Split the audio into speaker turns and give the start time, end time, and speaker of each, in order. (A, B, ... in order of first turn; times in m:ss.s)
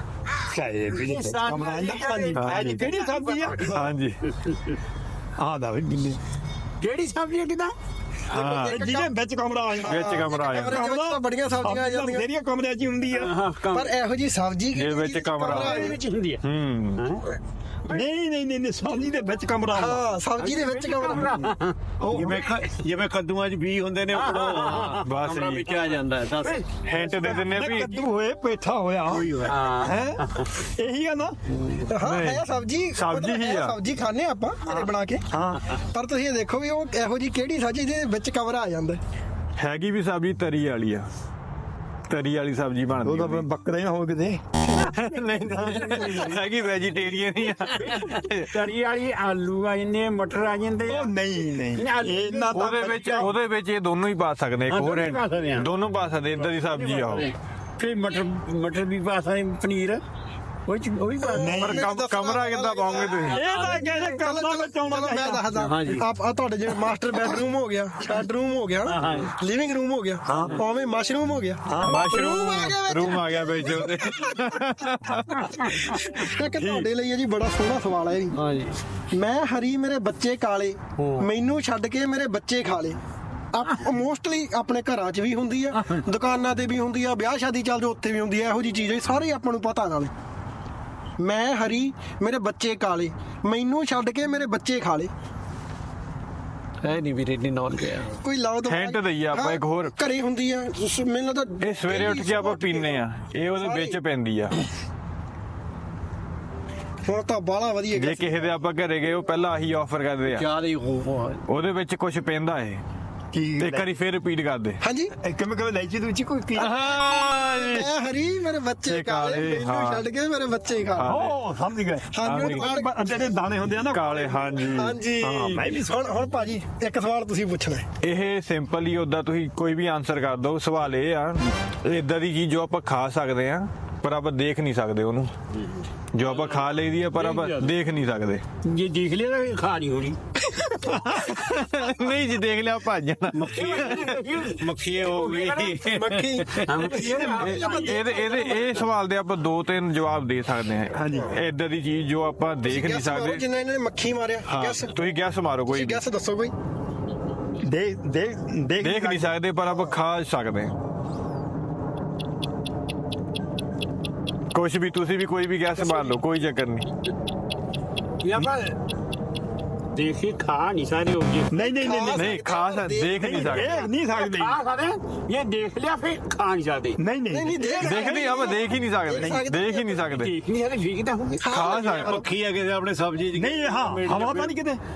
0:00.5-0:03.9 A
0:01.0-0:03.8 B
0:02.0-0:02.5 C
0:02.4-0:02.8 D
0:03.7-0:04.2 D
0:05.4-0:06.2 A
0:06.8-0:07.7 B
0:08.3-0:08.8 D
0:08.3-0:09.1 C
0:08.5-0:13.3 A
0:09.7-0:12.3 C
0:09.9-0:10.8 D
0:13.2-0:13.9 B
0:13.7-0:16.0 C
0:14.7-0:15.9 D
0:15.5-0:16.4 B
0:16.4-0:17.0 D
0:17.0-0:17.3 B
0:17.9-0:20.0 A
0:19.7-0:21.3 C
0:20.4-0:22.4 B
0:22.0-0:22.4 A
0:22.1-0:26.6 E
0:24.1-0:25.0 B
0:25.0-0:25.8 D
0:26.8-0:28.0 D
0:27.2-0:31.4 A
0:29.5-0:30.5 B
0:31.9-0:35.2 C
0:32.0-0:33.8 D
0:35.3-0:35.7 A
0:35.9-0:39.0 C
0:39.6-0:41.1 D
0:42.1-0:43.5 D
0:43.0-0:44.4 A
0:44.8-0:48.5 D
0:45.5-0:46.1 A
0:45.6-0:46.2 B
0:47.9-0:51.1 B
0:50.9-0:53.3 A
0:51.8-0:53.3 B
0:52.5-0:57.3 D
0:54.7-0:55.7 B
0:56.4-1:00.0 B
1:00.7-1:01.6 B
1:01.3-1:14.3 C
1:01.4-1:01.9 A
1:01.6-1:03.4 D
1:03.2-1:05.7 A
1:05.6-1:06.0 E
1:09.0-1:09.3 E
1:10.3-1:10.6 A
1:11.7-1:12.1 A
1:11.8-1:16.9 D
1:16.0-1:18.4 C
1:18.3-1:18.7 E
1:19.1-1:23.0 C
1:21.0-1:21.2 E
1:23.5-1:30.1 C
1:31.2-1:35.1 C
1:36.8-1:38.2 E
1:38.2-1:43.0 C
1:38.7-1:39.9 D
1:41.6-1:44.6 D
1:43.6-1:44.0 C
1:47.1-1:48.5 C
1:47.9-1:50.5 D
1:50.3-1:51.4 E
1:51.5-1:52.8 D
1:53.3-1:53.9 A
1:53.6-1:54.8 D
1:54.8-1:55.1 C
1:55.2-1:56.7 A
1:56.6-1:57.9 D
1:56.6-2:01.2 C
1:58.8-2:00.0 D
2:00.9-2:01.4 D
2:01.0-2:04.2 A
2:02.1-2:03.2 C
2:02.2-2:02.7 D
2:03.9-2:05.0 D
2:04.0-2:07.9 C
2:05.2-2:06.0 A
2:08.0-2:15.3 D
2:16.1-2:18.4 D
2:17.2-2:17.7 B
2:18.6-2:20.2 B
2:20.8-2:24.0 D
2:23.3-2:27.7 E
2:23.4-2:25.9 B
2:25.9-2:28.3 C
2:26.6-2:28.8 B
2:27.4-2:33.4 D
2:30.9-2:31.3 A
2:32.6-2:34.9 C
2:34.5-2:36.0 D
2:35.7-2:36.5 C
2:37.6-2:39.3 A
2:38.8-2:40.7 D
2:44.5-2:46.9 D
2:48.2-2:48.8 B
2:49.9-2:51.5 B
2:51.5-2:52.3 A
2:51.6-2:53.6 C
2:52.1-2:53.9 D
2:53.2-2:54.6 A
2:54.0-2:57.0 B
2:57.0-2:58.6 A
2:57.3-3:00.1 C
2:57.8-3:00.3 D
2:59.1-2:59.4 A
3:00.1-3:01.8 B
3:01.4-3:02.3 C
3:01.5-3:02.2 D
3:01.9-3:04.6 E
3:03.3-3:04.8 A